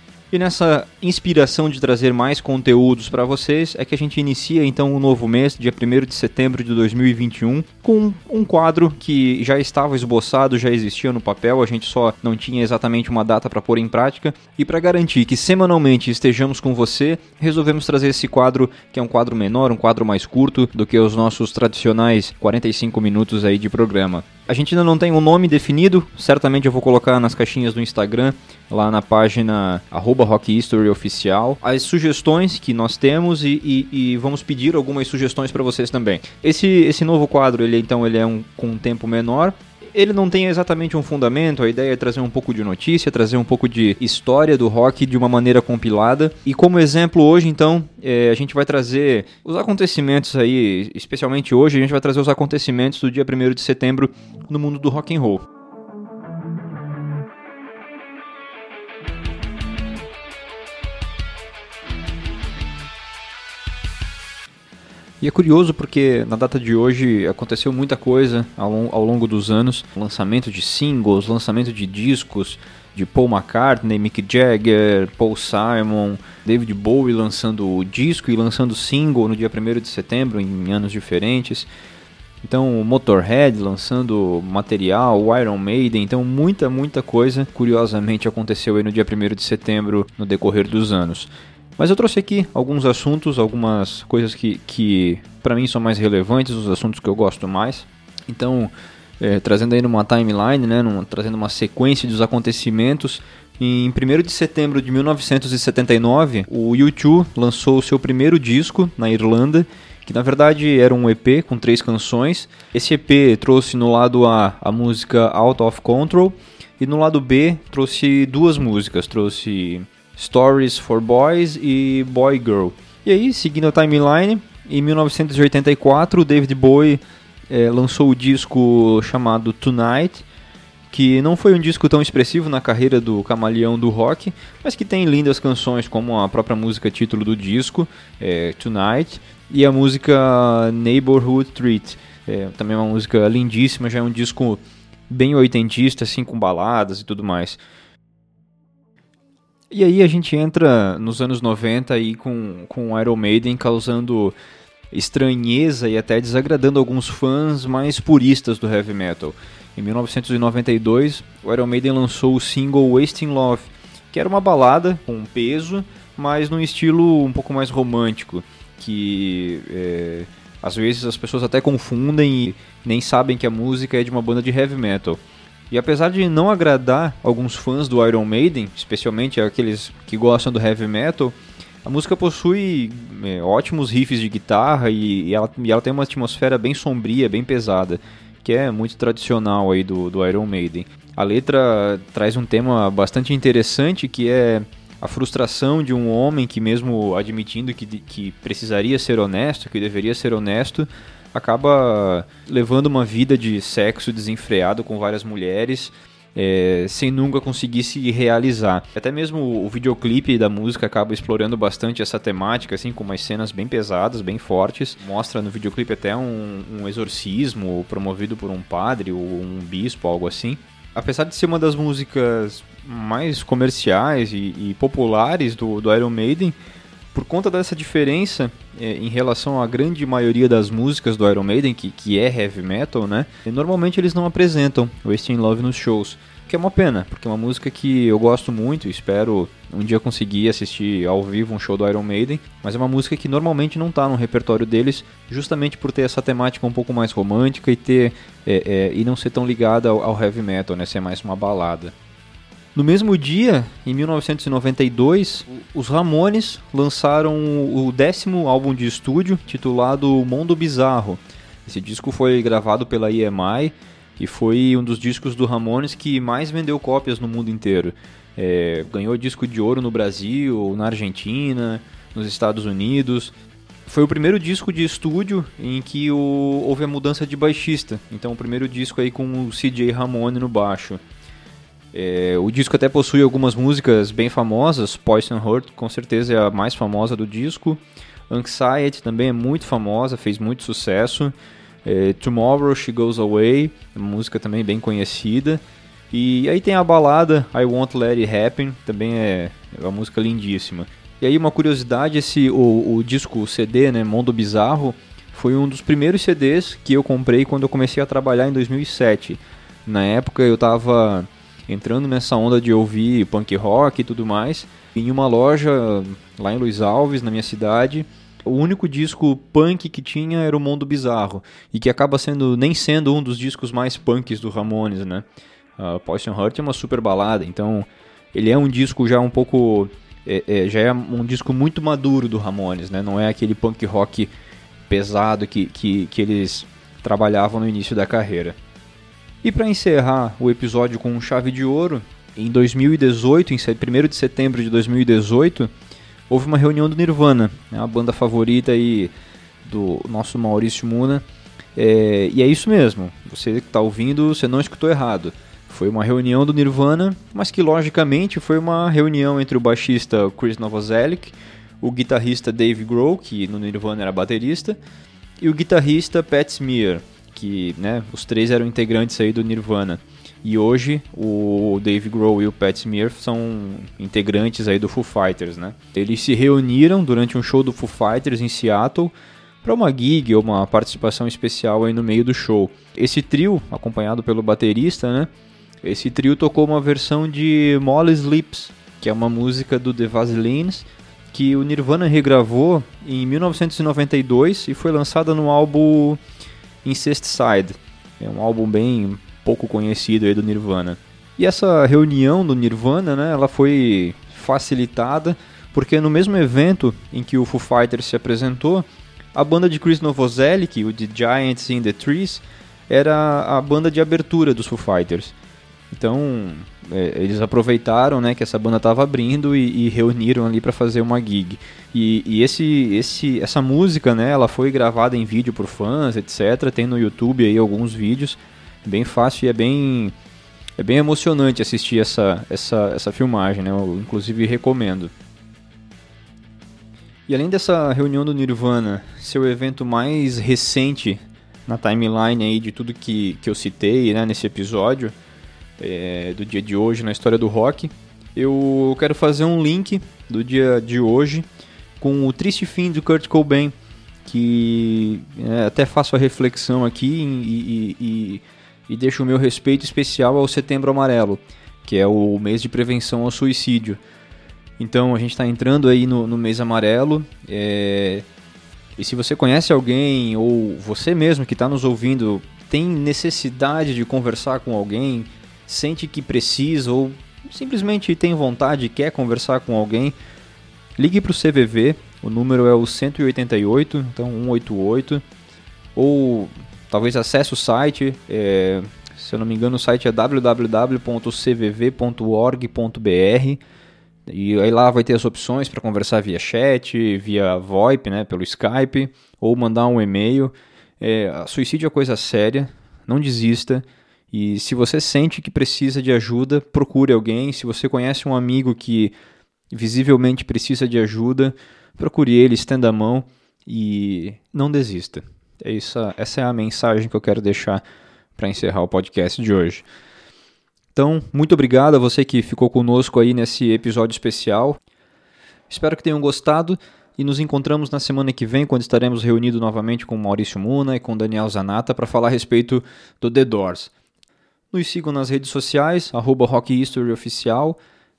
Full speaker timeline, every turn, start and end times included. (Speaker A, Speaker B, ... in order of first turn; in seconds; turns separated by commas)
Speaker A: 0.3-55.4, Speaker A: 65.2-81.7, Speaker A: 82.4-130.2, Speaker A: 130.9-147.6, Speaker A: 149.7-154.3, Speaker A: 154.9-226.6, Speaker A: 227.1-251.9, Speaker A: 252.8-273.3, Speaker A: 273.9-281.0, Speaker A: 281.9-291.3, Speaker A: 291.9-325.2, Speaker A: 325.8-334.3, Speaker A: 334.9-338.6, Speaker A: 339.4-345.7, Speaker A: 346.3-349.1, Speaker A: 349.6-351.2, Speaker A: 351.8-364.8, Speaker A: 365.4-385.3, Speaker A: 385.8-396.2, Speaker A: 396.8-415.3, Speaker A: 415.9-430.1, Speaker A: 430.8-435.1, Speaker A: 437.3-445.1, Speaker A: 445.8-451.5, Speaker A: 452.0-453.7, Speaker A: 454.2-464.0, Speaker A: 464.8-468.2, Speaker A: 469.0-480.1, Speaker A: 481.0-485.2, Speaker A: 485.9-493.6, Speaker A: 494.3-509.1, Speaker A: 509.7-517.8, Speaker A: 518.4-519.9, Speaker A: 521.0-524.8, Speaker A: 525.7-533.9, Speaker A: 534.7-537.8